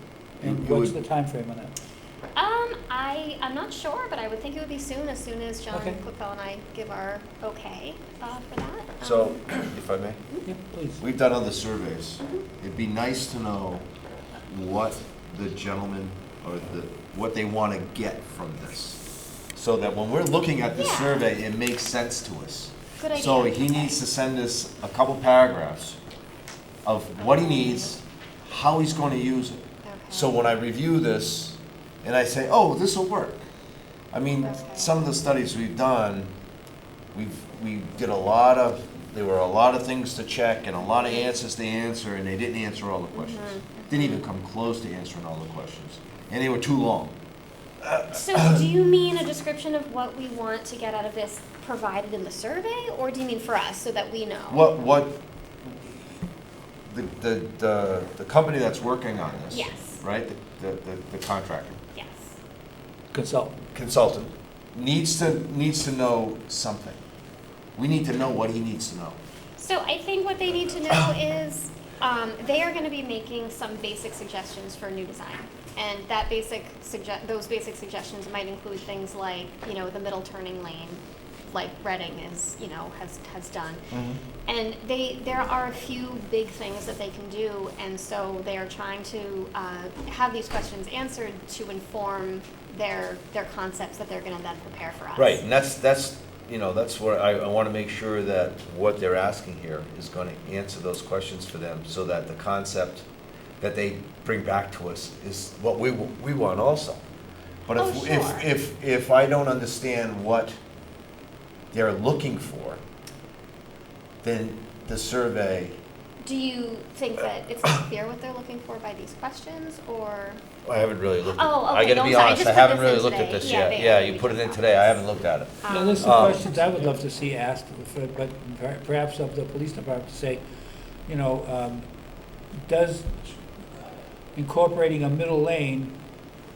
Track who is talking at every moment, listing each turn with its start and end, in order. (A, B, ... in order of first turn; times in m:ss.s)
0:00.4-0:01.7 A
0:00.4-0:01.0 B
0:02.4-0:09.4 C
0:05.7-0:06.0 A
0:09.0-0:10.2 B
0:10.4-0:11.0 A
0:11.0-0:13.8 B
0:14.5-0:19.0 B
0:19.5-0:26.0 B
0:20.7-0:21.2 C
0:23.0-0:24.0 C
0:26.8-0:33.4 B
0:27.2-0:28.0 C
0:29.8-0:30.4 C
0:34.1-0:36.3 B
0:34.4-0:35.0 C
0:37.1-0:47.1 B
0:41.0-0:41.3 C
0:43.1-0:44.2 C
0:47.8-0:48.6 B
0:48.0-0:54.7 C
0:54.5-0:55.2 B
0:56.9-1:01.8 B
0:59.5-1:00.0 C
1:01.9-1:02.4 C
1:03.1-1:03.6 A
1:03.7-1:07.0 B
1:07.8-1:09.2 B
1:09.6-1:23.9 C
1:23.9-1:24.2 B
1:24.5-1:35.4 C
1:35.2-1:43.0 B
1:43.6-1:47.0 B
1:47.7-1:50.6 B
1:47.8-1:48.5 C
1:51.7-1:52.8 B
1:54.2-1:55.8 B
1:56.2-2:00.4 C
2:00.6-2:06.5 B
2:01.3-2:06.4 C
2:05.7-2:10.4 A
2:11.0-2:11.9 A
2:12.5-2:16.0 A